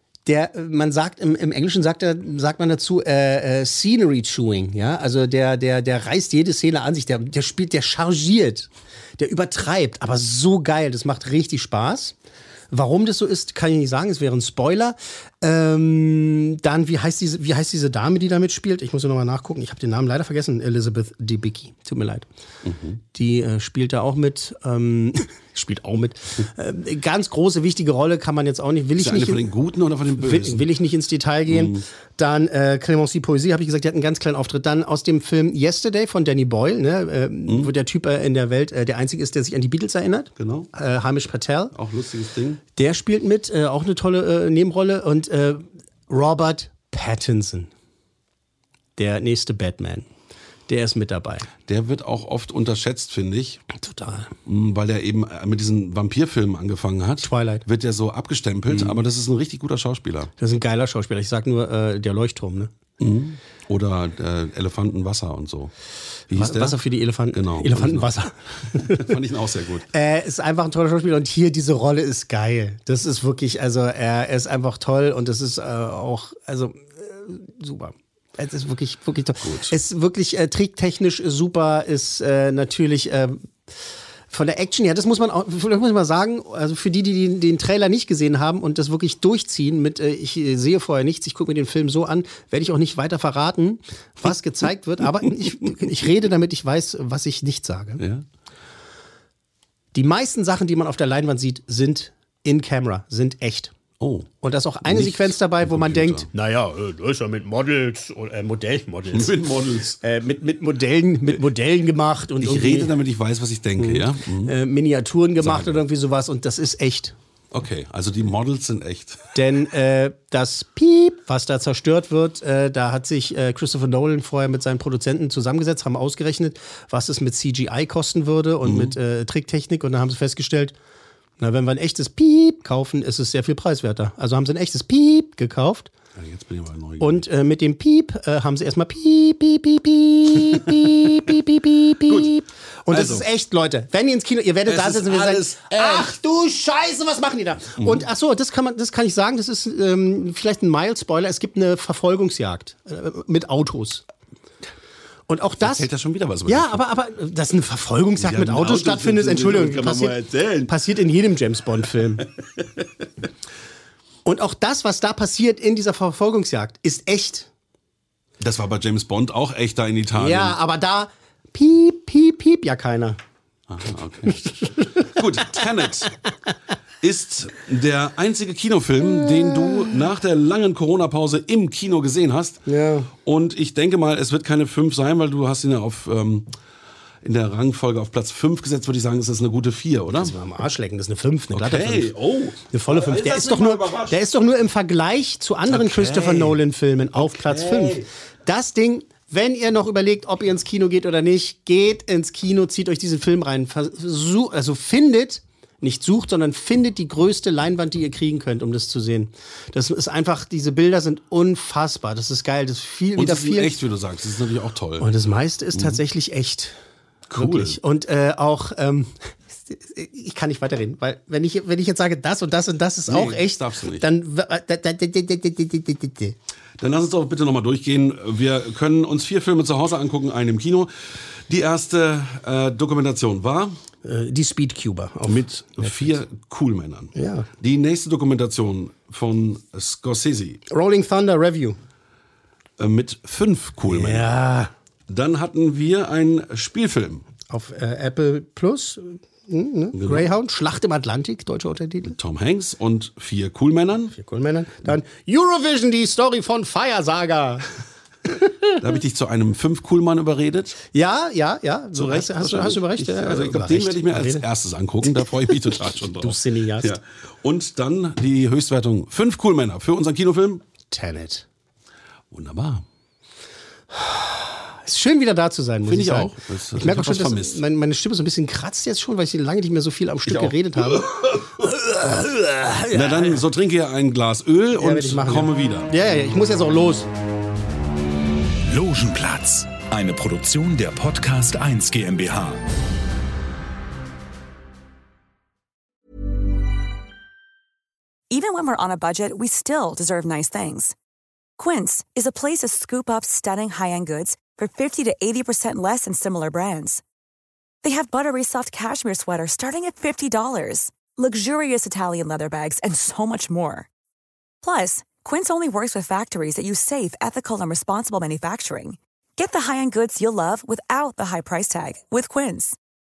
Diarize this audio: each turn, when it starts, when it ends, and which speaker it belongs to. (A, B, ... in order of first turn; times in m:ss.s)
0:00.2-0:12.1 A
0:12.7-0:22.2 A
0:22.6-0:23.0 B
0:23.1-0:29.4 A
0:29.0-0:30.7 B
0:30.2-0:41.7 A
0:31.5-0:31.8 B
0:40.4-0:40.7 B
0:41.7-0:42.6 B
0:42.8-0:47.7 A
0:49.0-0:50.0 A
0:50.7-0:51.5 A
0:51.7-0:53.6 B
0:53.7-0:54.3 A
0:54.4-1:00.3 B
0:57.2-0:57.6 A
0:58.7-0:59.0 A
1:00.4-1:02.7 A
1:03.0-1:05.7 B
1:06.3-1:06.8 B
1:06.3-1:09.1 A
1:07.3-1:08.1 B
1:08.6-1:09.8 B
1:09.9-1:23.5 A
1:19.4-1:19.7 B
1:24.3-1:38.0 A
1:38.0-1:38.2 B
1:39.9-1:43.7 A
1:44.0-1:44.3 B
1:44.4-1:49.3 A
1:44.8-1:46.3 B
1:49.1-1:50.0 B
1:50.0-1:52.9 A
1:52.4-1:54.5 B
1:53.8-1:57.1 A
1:55.4-1:55.8 B
1:57.5-1:59.3 B
1:59.3-2:10.7 A
2:08.6-2:09.0 B
2:11.4-2:15.9 A
2:16.2-2:17.3 B
2:17.0-2:34.0 A
2:20.4-2:21.3 B
2:22.0-2:22.3 B
2:22.9-2:23.2 B
2:24.6-2:26.1 B
2:27.8-2:28.0 B
2:35.3-2:35.9 A
2:35.6-2:36.8 B
2:36.4-2:42.2 A
2:38.2-2:40.7 B
2:42.2-2:42.8 B
2:44.2-2:47.5 A
2:48.4-2:50.6 B
2:50.2-2:53.2 A
2:53.7-2:56.1 B
2:54.7-2:55.6 A
2:57.0-3:06.5 B
2:59.2-3:00.0 A
3:02.6-3:03.1 A
3:07.2-3:10.3 B
3:10.1-3:12.1 A
3:11.5-3:14.2 B
3:12.7-3:33.8 A
3:15.7-3:16.6 B
3:17.1-3:18.1 B
3:33.2-3:35.1 B
3:35.0-3:36.8 A
3:35.7-3:36.0 B
3:37.3-3:37.8 B
3:37.3-3:46.3 A
3:43.1-3:44.0 B
3:46.8-3:53.8 B
3:54.0-3:56.2 A
3:55.2-4:00.6 B
3:57.1-3:57.5 A
4:00.7-4:01.8 A
4:02.8-4:04.3 B
4:03.9-4:04.7 A
4:05.1-4:07.2 B
4:07.5-4:12.1 A
4:09.9-4:10.3 B
4:12.0-4:14.2 B
4:14.1-4:17.6 A
4:18.3-4:18.8 A
4:18.8-4:20.8 B
4:20.9-4:24.4 A
4:21.9-4:30.6 B
4:25.2-4:26.9 A
4:30.9-4:31.4 A
4:32.3-4:32.8 B
4:33.9-4:43.4 A
4:35.8-4:37.6 B
4:40.2-4:41.8 B
4:42.9-4:45.9 B
4:44.8-4:47.1 A
4:48.7-4:52.6 C
4:58.3-5:00.9 D
5:01.6-5:07.0 D
5:07.8-5:13.9 D
5:14.6-5:22.8 D